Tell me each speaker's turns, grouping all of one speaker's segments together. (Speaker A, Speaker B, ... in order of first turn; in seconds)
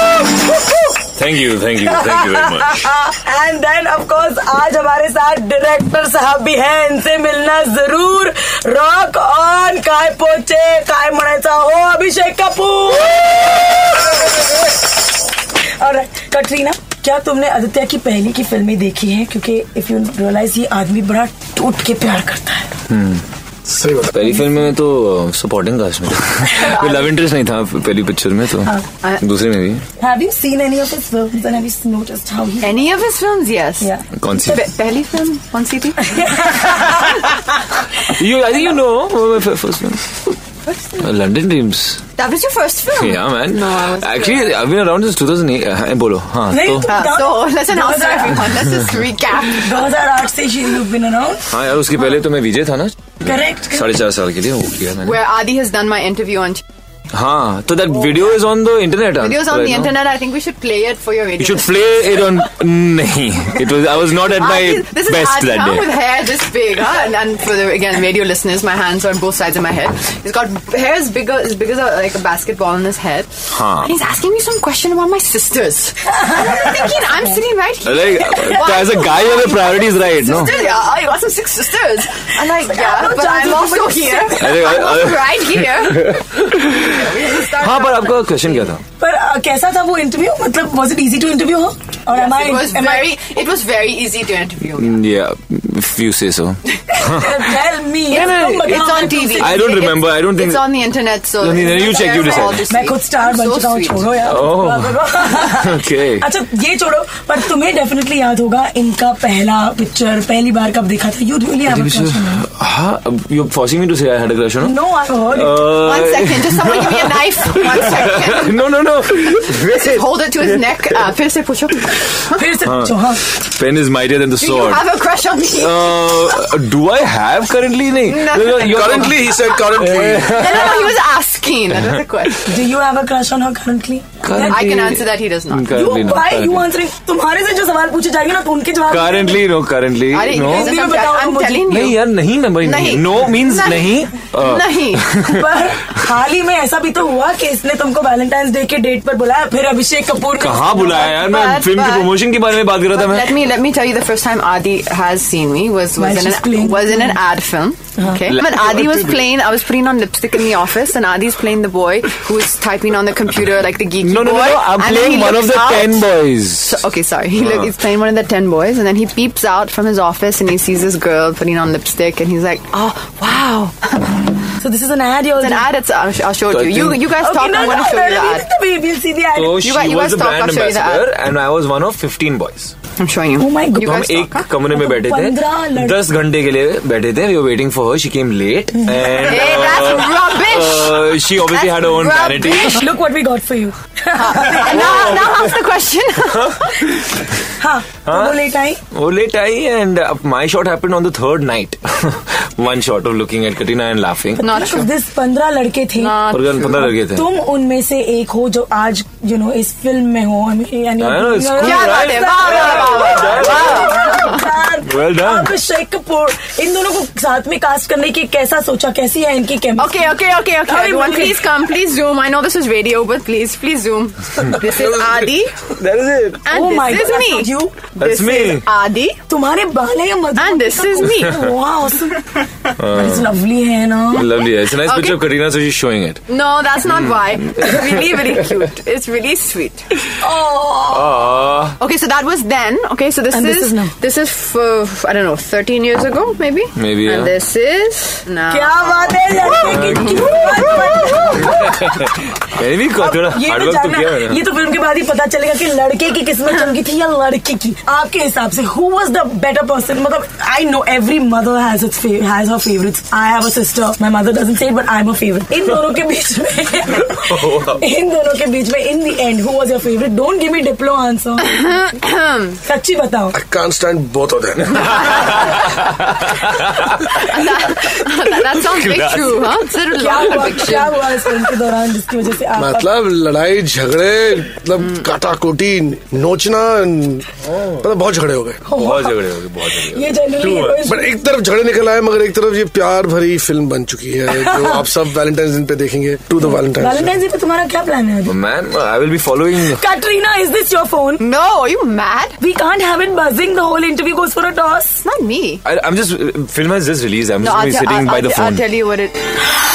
Speaker A: 1.1-2.9, 22.9-23.2, 24.1-29.8, 34.2-34.6, 36.8-37.2, 38.0-40.2, 41.0-42.0, 42.9-47.0, 51.5-55.2, 57.1-59.9, 61.4-65.9, 73.5-73.9, 77.8-80.6, 84.4-86.9, 87.5-88.8, 94.8-97.5, 98.5-100.8, 101.4-102.7, 104.2-106.2, 111.7-120.0, 122.6-124.9, 125.5-131.0, 134.2-136.7, 138.9-140.8, 141.6-145.4, 150.4-153.4, 158.3-159.2, 164.0-166.8, 167.3-167.7, 176.5-177.1, 179.3-182.7, 183.8-192.8, 194.8-195.4, 196.4-197.1, 198.1-204.6, 206.3-207.3, 211.0-214.0, 214.8-215.5, 225.7-226.5, 228.0-228.7, 232.8-233.3, 234.1-236.3, 236.8-237.9, 240.9-241.8, 246.8-247.3, 249.7-250.5, 251.4-252.0, 252.5-254.4, 267.0-267.8, 274.8-277.2, 278.5-280.4, 288.8-290.8, 298.2-299.8, 305.6-308.7
Speaker B: 1.8-13.4, 15.8-22.7, 30.0-32.8, 36.1-36.9, 46.5-48.5, 49.4-51.5, 53.2-53.9, 76.2-76.5, 82.4-84.8, 89.0-93.2, 96.9-99.7, 102.2-112.5, 114.6-115.7, 122.3-123.2, 132.4-134.7, 135.7-139.5, 140.4-141.6, 145.2-151.1, 156.0-157.2, 174.6-175.7, 177.2-179.6, 183.4-184.0, 184.7-186.0, 192.6-194.9, 197.6-198.8, 204.4-206.2, 207.1-220.0, 220.7-221.5, 226.5-228.5, 229.3-232.2, 232.9-234.3, 240.1-241.2, 243.3-243.9, 248.5-252.3, 253.0-271.9, 272.6-273.4, 279.9-282.9, 288.6-289.2, 289.7-291.1, 294.3-294.9, 296.4-298.4, 299.6-301.2, 302.4-305.0
Speaker C: 23.7-24.3, 128.6-130.5, 273.3-275.2, 282.6-288.8, 290.8-297.2
Speaker D: 26.6-27.1, 32.6-36.8, 40.7-40.9, 42.2-44.6, 46.8-49.9, 55.0-56.6, 59.2-62.2, 64.0-86.2, 86.8-88.8, 92.1-95.1, 98.1-104.1, 115.7-122.5, 124.4-126.2, 128.1-129.2, 130.3-132.5, 134.3-135.7, 140.1-145.2, 150.9-152.2, 152.7-174.3, 175.3-178.4, 179.6-181.1, 183.0-184.5, 189.2-192.8, 194.1-196.9, 204.4-204.9, 206.0-206.9, 211.6-214.6, 219.8-225.7, 226.4-229.2, 230.4-231.4, 234.7-235.2, 236.3-240.1, 241.8-250.5, 271.5-272.6, 274.8-275.6, 277.1-281.4, 301.2-302.4, 305.0-305.6, 307.4-309.3